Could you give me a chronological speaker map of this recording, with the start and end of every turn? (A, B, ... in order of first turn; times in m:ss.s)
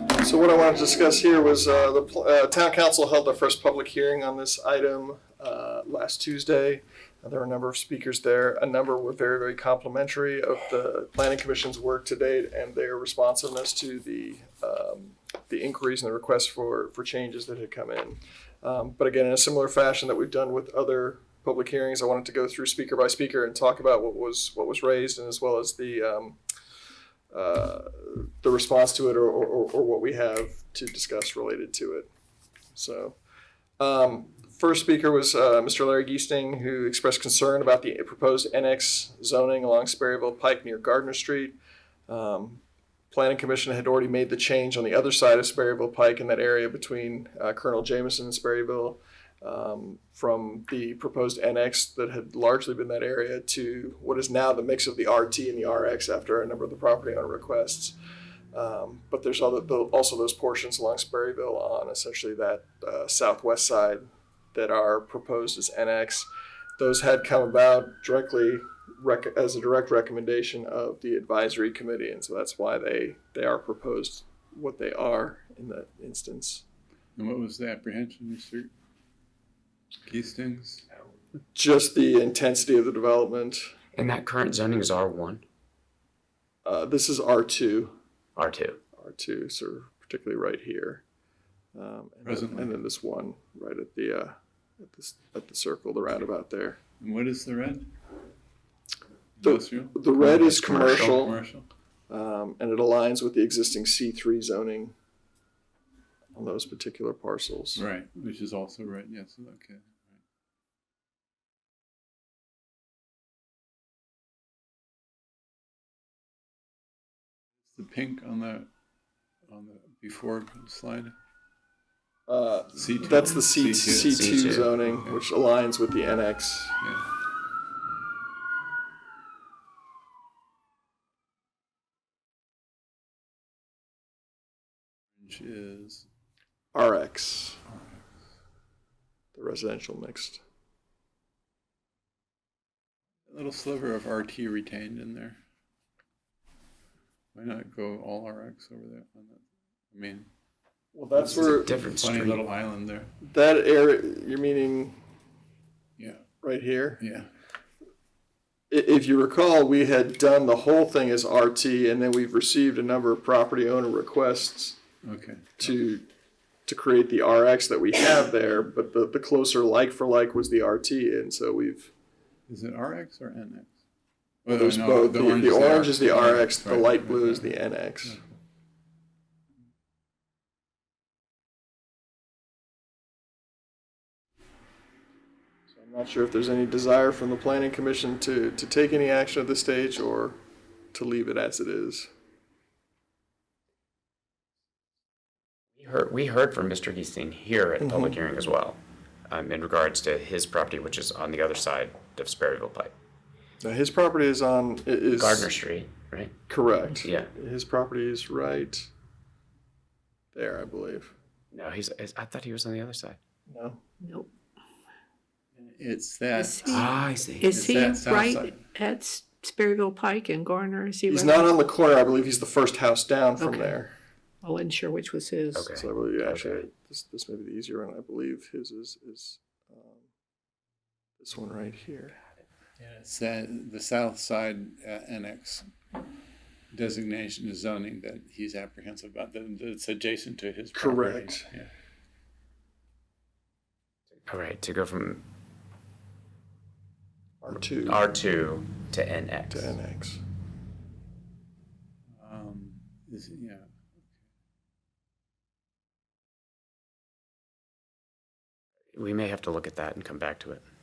0:00.2-0:26.4 A
0:27.3-0:32.1 A
0:32.7-0:33.2 A
0:33.8-0:41.6 A
0:42.1-0:58.0 A
0:58.5-1:16.6 A
1:17.2-1:18.7 B
1:20.0-1:20.8 B
1:21.5-1:23.7 A
1:24.0-1:25.4 C
1:26.6-1:28.0 A
1:28.4-1:28.8 C
1:29.0-1:31.0 A
1:31.7-1:36.8 A
1:32.2-1:32.7 B
1:37.0-1:37.9 B
1:39.4-1:41.7 B
1:39.4-1:41.4 A
1:42.1-1:44.9 A
1:46.3-1:47.8 A
1:47.7-1:50.0 B
1:57.6-1:58.7 B
1:59.5-2:01.1 B
2:02.3-2:06.8 A
2:02.7-2:05.2 B
2:03.9-2:04.7 C
2:06.8-2:07.0 B
2:15.2-2:16.1 B
2:16.7-2:17.6 A
2:17.7-2:18.0 B
2:19.3-2:20.4 A
2:23.3-2:25.4 B
2:27.3-2:30.3 B
2:30.9-2:31.7 A
2:31.3-2:32.4 C
2:31.8-2:33.1 B
2:33.2-2:34.9 A
2:36.0-2:36.2 B
2:36.4-2:37.0 A
2:37.0-2:37.3 B
2:38.7-2:44.8 A
2:45.0-2:45.7 B
2:45.6-2:46.1 A
2:46.7-2:51.9 A
2:52.5-2:53.8 B
2:54.4-2:58.2 B
2:54.5-2:58.2 A
3:05.7-3:10.4 A
3:10.9-3:12.1 A
3:15.8-3:22.9 C
3:17.8-3:18.2 A
3:23.6-3:25.5 A
3:25.2-3:26.3 C
3:26.5-3:28.9 A
3:27.0-3:27.3 C
3:30.3-3:31.1 A
3:31.5-3:33.2 C
3:33.5-3:33.8 A
3:34.0-3:34.3 D
3:35.6-3:36.8 B
3:36.3-3:36.9 D
3:36.6-3:37.5 C
3:37.4-3:41.5 D
3:37.5-3:38.6 B
3:41.1-3:43.9 A
3:43.4-3:43.8 D
3:44.4-3:45.7 D
3:45.5-3:46.7 C
3:45.7-3:50.1 A
3:51.2-3:52.2 A
3:52.8-3:55.7 B
3:56.7-4:01.7 B
4:00.7-4:01.4 A
4:04.2-4:05.2 C
4:07.4-4:08.0 A
4:07.8-4:09.8 C
4:09.5-4:10.2 A
4:12.2-4:13.9 B
4:18.9-4:20.6 C